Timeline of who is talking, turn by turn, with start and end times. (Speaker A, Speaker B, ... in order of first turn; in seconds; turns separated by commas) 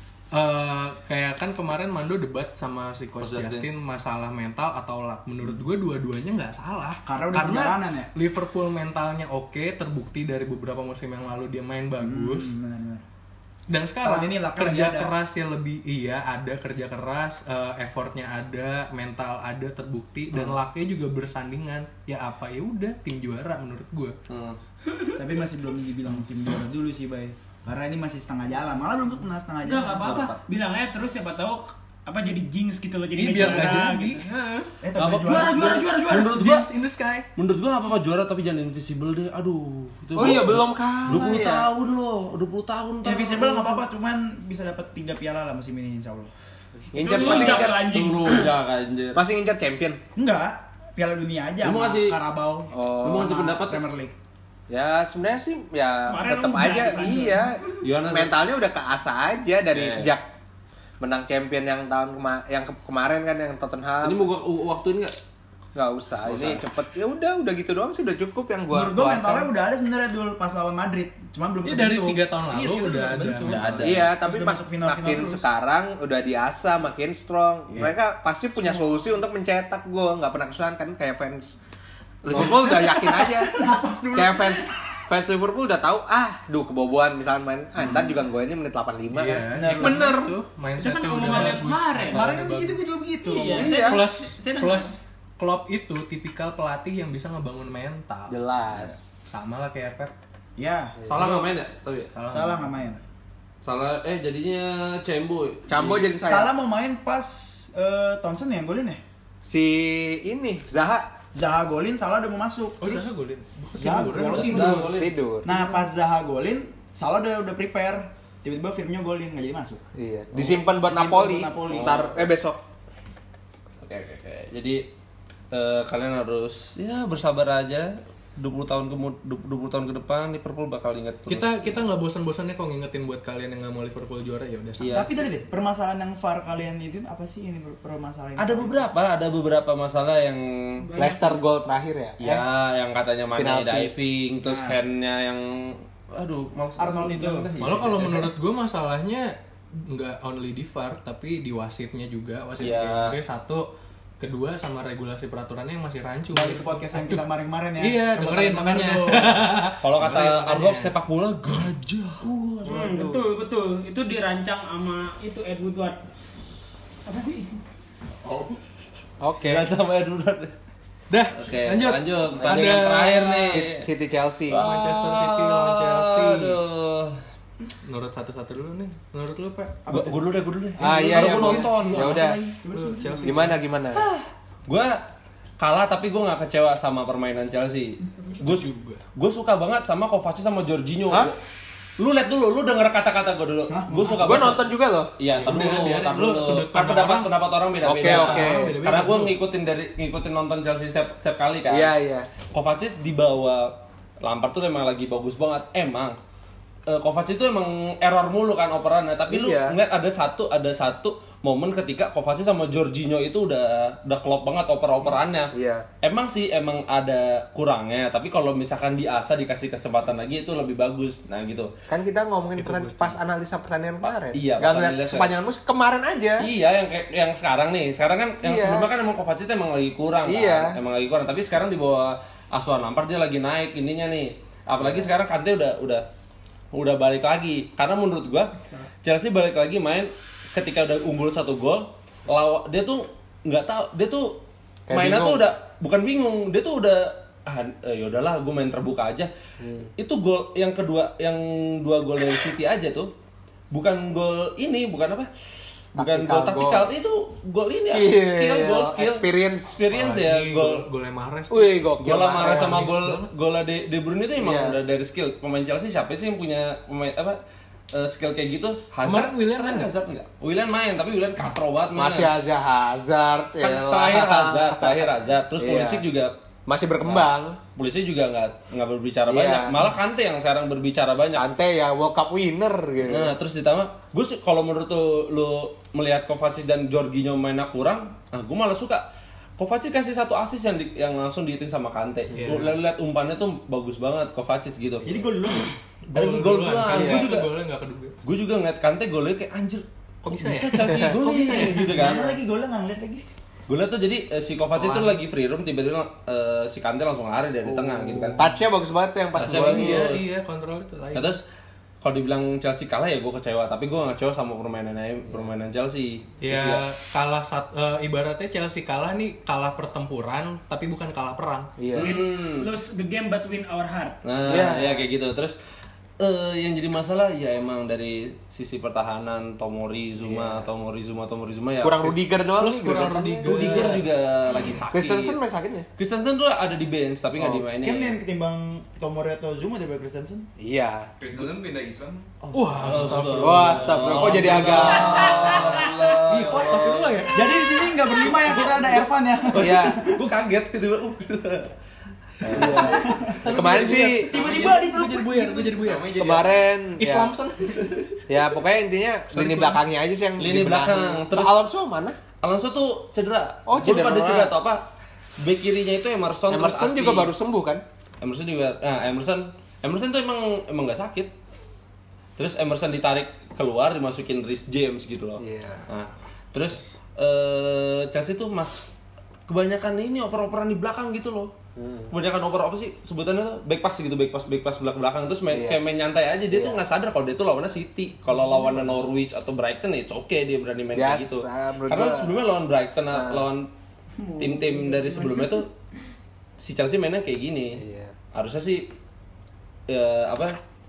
Speaker A: 0.3-12.5, Speaker B: 3.2-3.7, Speaker C: 7.0-8.1, Speaker C: 12.0-13.0, Speaker A: 13.7-24.1, Speaker C: 14.0-15.1, Speaker B: 24.3-24.6, Speaker D: 24.9-25.2, Speaker C: 25.2-30.2, Speaker D: 29.6-36.3, Speaker B: 30.0-30.4, Speaker A: 33.1-34.2, Speaker C: 34.8-35.8, Speaker B: 35.0-36.7, Speaker A: 36.1-37.2, Speaker B: 37.4-43.8, Speaker E: 40.1-41.7, Speaker C: 43.0-46.3, Speaker E: 46.9-47.9, Speaker D: 46.9-48.5, Speaker B: 47.2-49.2, Speaker E: 49.1-50.0, Speaker C: 50.1-54.1, Speaker B: 51.6-52.2, Speaker E: 52.7-53.3, Speaker B: 53.0-53.8, Speaker E: 54.7-60.2, Speaker D: 56.0-57.8, Speaker B: 57.8-58.4, Speaker B: 59.7-60.1, Speaker E: 61.0-64.3, Speaker B: 64.0-65.2, Speaker E: 65.7-69.5, Speaker B: 66.2-66.6, Speaker C: 68.7-75.4, Speaker A: 71.6-73.5, Speaker B: 73.4-74.1, Speaker E: 73.8-81.6, Speaker C: 77.7-78.9, Speaker E: 82.2-90.3, Speaker C: 82.3-84.8, Speaker C: 87.8-88.2, Speaker A: 89.1-92.8, Speaker C: 89.5-90.3, Speaker D: 90.8-92.3, Speaker C: 91.3-91.6, Speaker C: 92.1-93.8, Speaker D: 93.2-94.9, Speaker E: 93.3-94.0, Speaker A: 93.7-100.1, Speaker E: 98.3-99.0, Speaker C: 100.6-101.0, Speaker A: 101.0-101.5, Speaker B: 101.2-102.1, Speaker A: 102.1-102.7, Speaker C: 102.3-103.0, Speaker B: 103.6-106.1, Speaker E: 105.7-106.5, Speaker C: 105.8-109.0, Speaker E: 109.4-111.1, Speaker C: 111.3-113.1, Speaker A: 112.8-114.8, Speaker C: 113.8-114.9, Speaker B: 114.2-115.1, Speaker E: 114.6-115.5, Speaker C: 115.4-119.8, Speaker E: 119.9-122.6, Speaker C: 120.5-122.1, Speaker B: 121.7-122.3, Speaker B: 123.8-124.8, Speaker B: 125.5-131.8, Speaker A: 131.2-135.0, Speaker B: 134.8-135.2, Speaker C: 134.9-138.9, Speaker B: 138.4-140.9, Speaker D: 140.8-141.4, Speaker E: 141.0-142.4, Speaker B: 142.2-148.3, Speaker E: 143.4-143.9, Speaker C: 144.4-144.8, Speaker C: 146.8-147.5, Speaker A: 147.6-153.7, Speaker B: 152.6-153.1, Speaker A: 154.2-157.2, Speaker C: 156.3-159.5, Speaker A: 157.8-160.9, Speaker B: 159.8-162.6, Speaker D: 162.6-166.0, Speaker E: 162.6-163.3, Speaker D: 167.1-167.6, Speaker B: 168.2-168.6, Speaker E: 169.2-169.7, Speaker B: 169.4-170.5, Speaker A: 171.1-173.6, Speaker B: 171.3-173.8, Speaker E: 173.5-174.6, Speaker B: 174.5-177.2, Speaker A: 174.5-176.6, Speaker A: 177.8-179.9, Speaker C: 179.8-180.2, Speaker B: 179.9-182.3, Speaker E: 180.8-182.4, Speaker C: 181.1-183.5, Speaker A: 182.7-183.6, Speaker E: 183.2-184.0, Speaker B: 183.9-185.0, Speaker B: 185.6-191.4, Speaker A: 188.4-189.0, Speaker B: 192.0-201.9, Speaker C: 193.7-194.6, Speaker E: 194.2-195.1, Speaker A: 195.3-197.3, Speaker E: 197.8-198.8, Speaker A: 198.0-199.3, Speaker E: 201.7-202.3, Speaker B: 202.5-206.2, Speaker B: 206.9-221.7, Speaker E: 209.3-209.8, Speaker E: 215.5-215.8, Speaker E: 221.9-226.4, Speaker A: 222.6-223.2, Speaker B: 224.3-225.3, Speaker B: 226.4-236.1, Speaker E: 228.4-228.9, Speaker E: 230.3-230.7, Speaker E: 234.8-235.1, Speaker B: 236.7-249.3, Speaker E: 244.9-245.5, Speaker E: 249.6-249.9, Speaker B: 250.0-253.1, Speaker B: 253.7-255.3, Speaker B: 255.9-260.8, Speaker E: 256.0-256.9, Speaker E: 257.8-259.8, Speaker A: 259.9-263.3, Speaker E: 261.5-262.8, Speaker B: 262.0-267.4, Speaker E: 264.4-264.8, Speaker B: 267.9-272.3, Speaker A: 269.0-269.9, Speaker E: 271.9-276.0, Speaker B: 273.6-276.3, Speaker E: 276.7-277.6, Speaker B: 277.0-281.4, Speaker E: 279.3-279.9, Speaker E: 281.4-283.3, Speaker B: 283.1-289.1, Speaker B: 289.6-295.2, Speaker A: 292.3-292.7, Speaker C: 295.1-295.7, Speaker A: 296.1-298.1, Speaker B: 296.1-297.5, Speaker E: 296.9-297.3, Speaker B: 298.2-302.4, Speaker A: 300.2-302.1, Speaker C: 301.2-303.2, Speaker B: 303.7-308.5, Speaker E: 307.6-310.1, Speaker B: 309.3-310.2, Speaker A: 309.6-311.3, Speaker B: 311.1-311.4, Speaker B: 312.0-316.8, Speaker A: 316.4-321.7, Speaker E: 321.8-322.2, Speaker B: 321.9-322.7, Speaker D: 321.9-324.2, Speaker B: 324.2-325.6, Speaker E: 324.4-325.1, Speaker B: 326.2-332.2, Speaker E: 330.2-330.7, Speaker E: 331.8-334.0, Speaker A: 332.6-334.0, Speaker B: 333.4-335.4, Speaker E: 334.9-335.9, Speaker B: 336.0-338.2, Speaker E: 337.4-337.6, Speaker C: 337.8-340.5, Speaker E: 340.6-341.1, Speaker B: 341.2-341.7, Speaker B: 342.4-347.3, Speaker A: 342.5-345.5, Speaker E: 343.2-346.0, Speaker A: 346.2-347.6, Speaker C: 347.3-350.2, Speaker B: 348.2-351.7, Speaker E: 349.6-350.1, Speaker B: 352.4-353.3, Speaker E: 352.4-354.4, Speaker C: 352.5-353.3, Speaker A: 353.0-356.3, Speaker C: 354.0-356.0, Speaker E: 356.1-357.3, Speaker A: 357.0-358.2, Speaker E: 358.3-362.2, Speaker A: 359.3-359.8, Speaker B: 360.4-361.6, Speaker B: 362.4-364.9, Speaker E: 363.6-364.5, Speaker B: 365.4-367.3, Speaker E: 366.5-367.8, Speaker B: 368.2-371.3, Speaker B: 372.4-378.8, Speaker E: 375.4-375.8, Speaker B: 379.5-381.5, Speaker E: 381.8-382.1, Speaker B: 382.1-393.7, Speaker E: 385.5-385.8, Speaker E: 386.5-386.8, Speaker E: 390.9-392.4, Speaker E: 393.1-393.5, Speaker D: 394.2-395.7, Speaker B: 394.4-395.7, Speaker B: 396.6-397.8, Speaker E: 397.8-398.1, Speaker B: 398.3-398.9, Speaker B: 399.9-400.6